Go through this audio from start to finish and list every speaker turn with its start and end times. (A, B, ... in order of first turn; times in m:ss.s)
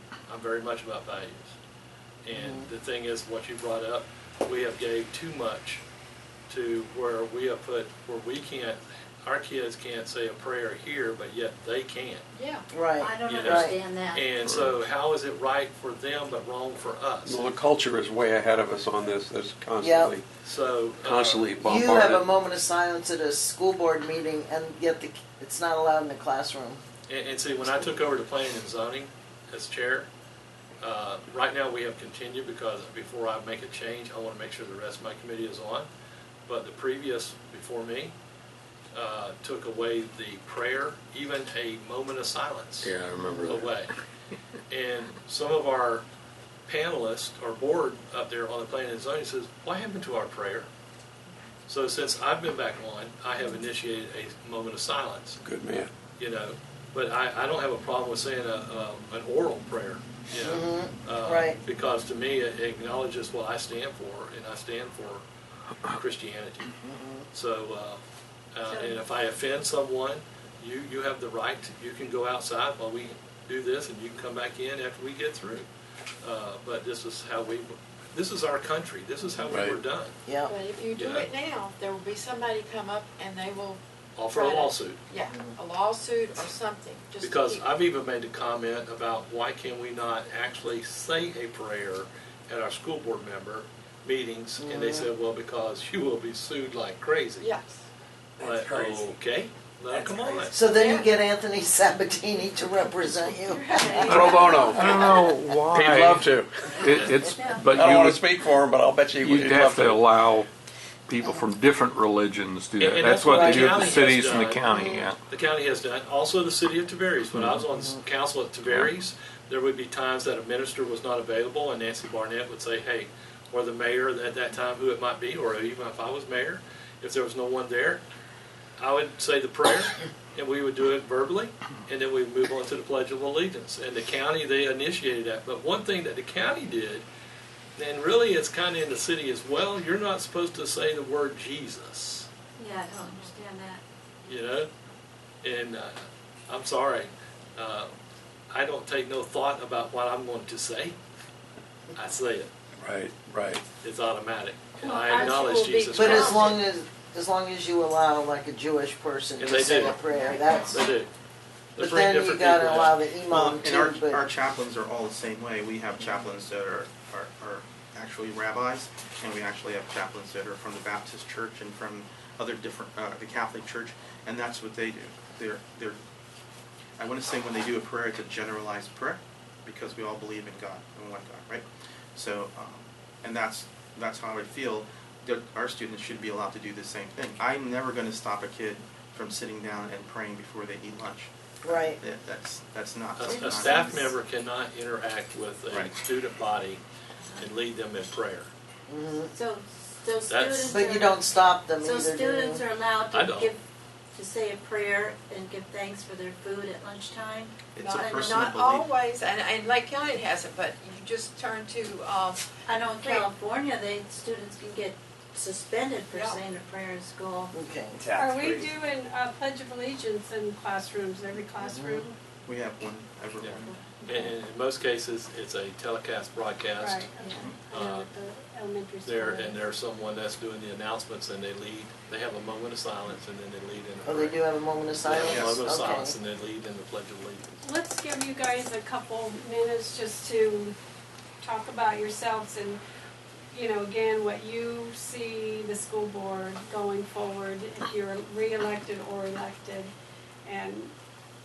0:00.3-0:01.5 A
0:02.2-0:05.8 A
0:02.3-0:02.7 B
0:06.5-0:12.2 A
0:12.3-0:12.6 C
0:12.7-0:13.8 B
0:13.0-0:14.3 D
0:13.2-0:17.4 A
0:14.4-0:14.7 E
0:17.2-0:20.2 F
0:19.8-0:20.1 B
0:20.4-0:21.5 A
0:21.0-0:22.3 F
0:21.6-0:26.8 B
0:27.1-0:30.1 A
0:30.8-0:35.9 A
0:36.5-0:38.1 A
0:38.9-0:43.9 A
0:42.8-0:43.7 E
0:43.2-0:43.5 B
0:44.7-0:46.0 A
0:46.7-0:50.7 A
0:51.7-0:55.4 A
0:55.4-0:55.9 F
0:56.2-1:05.2 A
1:00.4-1:01.6 B
1:05.9-1:06.7 A
1:06.8-1:07.2 B
1:07.3-1:08.0 A
1:08.5-1:15.7 A
1:08.6-1:09.0 D
1:16.2-1:20.2 A
1:19.5-1:19.8 F
1:20.2-1:20.5 B
1:20.5-1:27.7 C
1:20.9-1:21.3 A
1:24.2-1:25.0 A
1:25.2-1:25.6 B
1:27.2-1:37.5 A
1:34.6-1:35.1 B
1:37.4-1:37.8 C
1:38.4-1:39.1 F
1:38.4-1:40.7 A
1:39.9-1:41.1 C
1:40.5-1:44.6 B
1:43.4-1:44.8 C
1:43.7-1:44.4 D
1:44.0-1:46.9 F
1:44.7-1:48.2 E
1:46.9-1:47.2 A
1:47.3-1:47.7 D
1:47.6-1:50.1 F
1:49.2-1:50.5 E
1:51.1-1:55.2 E
1:51.2-1:51.4 B
1:52.8-1:54.6 A
1:53.2-1:54.1 B
1:54.7-1:55.1 B
1:55.3-2:08.0 A
1:57.7-1:58.0 B
2:08.8-2:17.0 A
2:17.8-2:22.3 A
2:22.6-2:23.8 D
2:24.2-2:24.7 A
2:25.4-2:26.0 A
2:26.5-2:27.9 A
2:28.5-2:31.0 A
2:31.9-2:32.5 A
2:32.8-2:33.6 F
2:33.8-2:36.5 A
2:34.8-2:36.2 G
2:34.8-2:36.6 C
2:36.0-2:40.8 B
2:39.4-2:40.0 A
2:40.2-2:40.8 D
2:40.6-2:41.1 A
2:41.8-2:43.0 A
2:41.8-2:44.2 B
2:43.3-2:56.0 H
2:57.0-3:14.1 H
3:11.6-3:12.0 B
3:13.2-3:16.8 A
3:13.3-3:13.9 D
3:17.2-3:17.4 D
3:17.4-3:18.5 A
3:18.9-3:19.3 B
3:19.3-3:23.6 D
3:20.3-3:20.8 A
3:20.7-3:22.6 B
3:23.1-3:23.5 A
3:24.1-3:28.4 D
3:27.7-3:28.9 H
3:27.8-3:33.3 C
3:32.7-3:37.5 D
3:36.1-3:36.4 C
3:37.5-3:38.0 B
3:37.9-3:38.6 E
3:38.1-3:42.1 G
3:41.5-3:42.0 B
3:42.4-3:43.7 H
3:43.4-3:47.1 A
3:43.6-3:44.3 D
3:46.8-3:49.6 G
3:47.3-3:47.6 H
3:47.7-3:48.1 A
3:49.0-3:54.4 A
3:54.0-3:56.2 B
3:55.0-3:57.6 A
3:55.2-3:55.6 H
3:57.6-4:00.7 G
4:01.4-4:02.8 G
4:03.5-4:09.9 G
4:10.4-4:10.9 G